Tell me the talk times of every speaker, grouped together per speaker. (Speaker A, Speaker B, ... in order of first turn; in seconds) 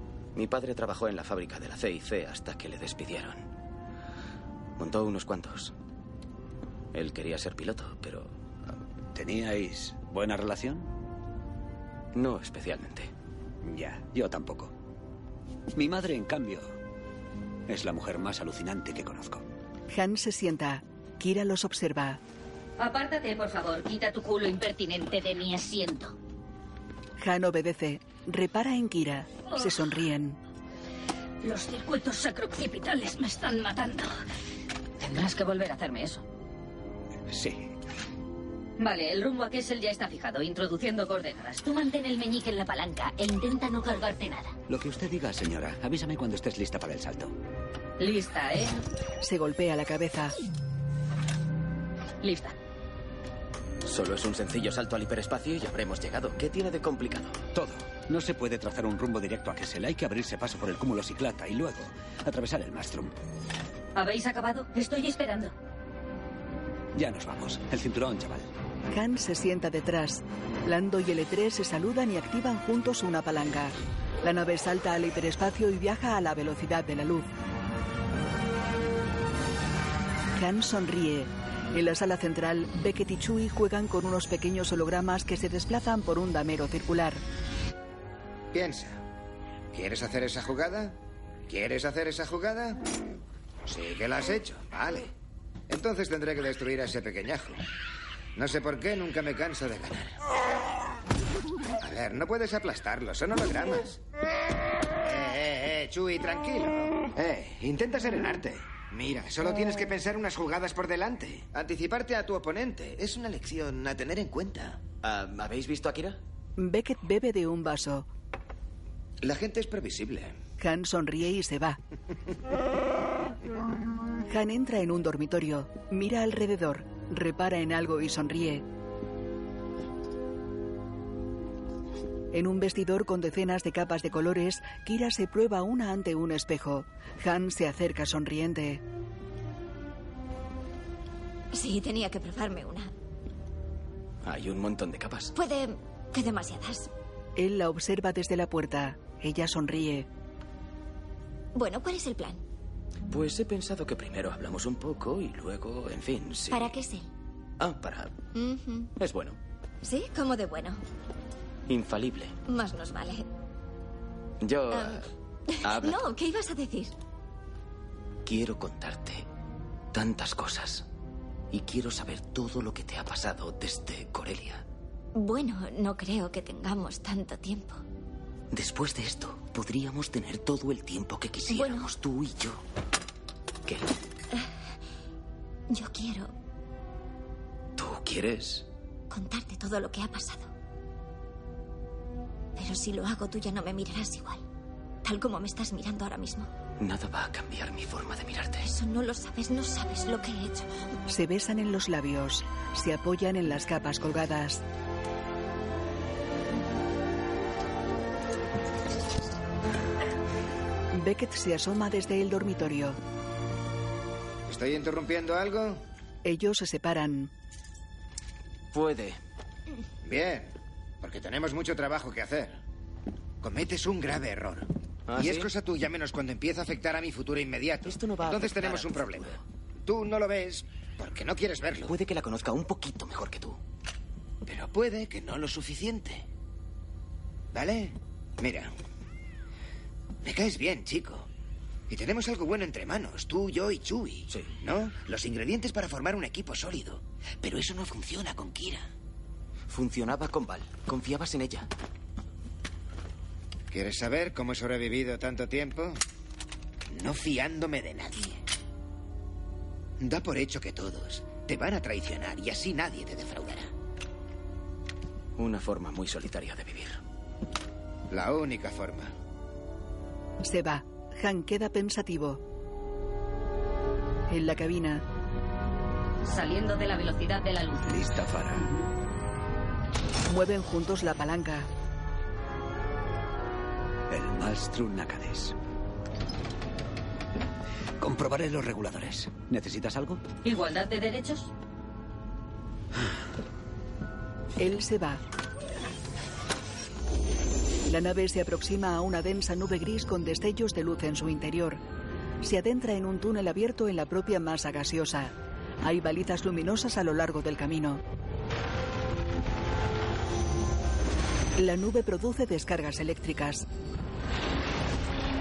Speaker A: 0.3-3.5, 4.8-5.7, 6.9-8.3, 12.1-13.1, 53.9-57.8, 115.0-116.2, 144.2-145.3, 153.1-156.7, 157.6-158.2, 159.0-159.4, 161.7-162.4, 164.4-165.1, 165.6-166.0, 168.3-169.3, 169.9-170.9, 171.5-174.6, 178.5-182.6, 183.7-183.9, 187.8-188.7, 196.8-198.7, 218.7-219.2, 225.1-225.5, 227.9-229.4, 231.9-233.6, 249.7-251.7, 265.4-267.0
Speaker B: 9.1-10.9, 13.6-14.7, 15.7-16.8, 17.7-19.4, 37.3-37.7, 44.7-47.3, 57.9-63.1, 67.0-68.5, 277.8-278.7, 284.1-285.6, 288.0-290.2
Speaker C: 19.9-22.2, 27.2-30.4, 49.2-50.4, 68.9-77.3, 80.4-87.2, 116.6-118.1, 120.6-121.8, 124.3-128.6, 132.3-138.8, 147.4-150.1, 201.1-204.6, 210.9-213.0, 216.2-217.3, 270.4-272.4, 274.3-275.1, 280.3-281.7, 294.6-295.2, 297.9-301.8, 302.4-308.0, 311.6-313.7
Speaker D: 22.8-26.1, 31.4-34.2, 35.0-36.2, 38.8-44.5, 48.0-48.8, 52.2-52.5, 64.0-65.5, 276.2-277.9, 290.4-291.5
Speaker E: 88.5-89.0, 89.7-92.9, 93.7-95.1, 95.7-97.6, 98.4-100.2, 101.8-104.0, 105.0-114.8, 119.2-120.4, 214.5-215.8, 220.0-222.6, 223.4-231.9, 234.5-236.3, 237.5-238.7, 240.2-241.3, 241.9-248.9, 253.7-256.0, 256.9-258.4, 260.0-263.7, 268.1-269.1
Speaker F: 141.5-142.9, 145.3-146.9, 151.6-152.4, 156.5-157.1, 158.3-158.9, 159.8-160.8, 162.5-163.2, 164.7-166.9, 175.2-177.8, 181.5-181.9, 185.7-186.3, 189.1-190.5, 192.6-194.4, 195.0-196.5, 198.6-200.7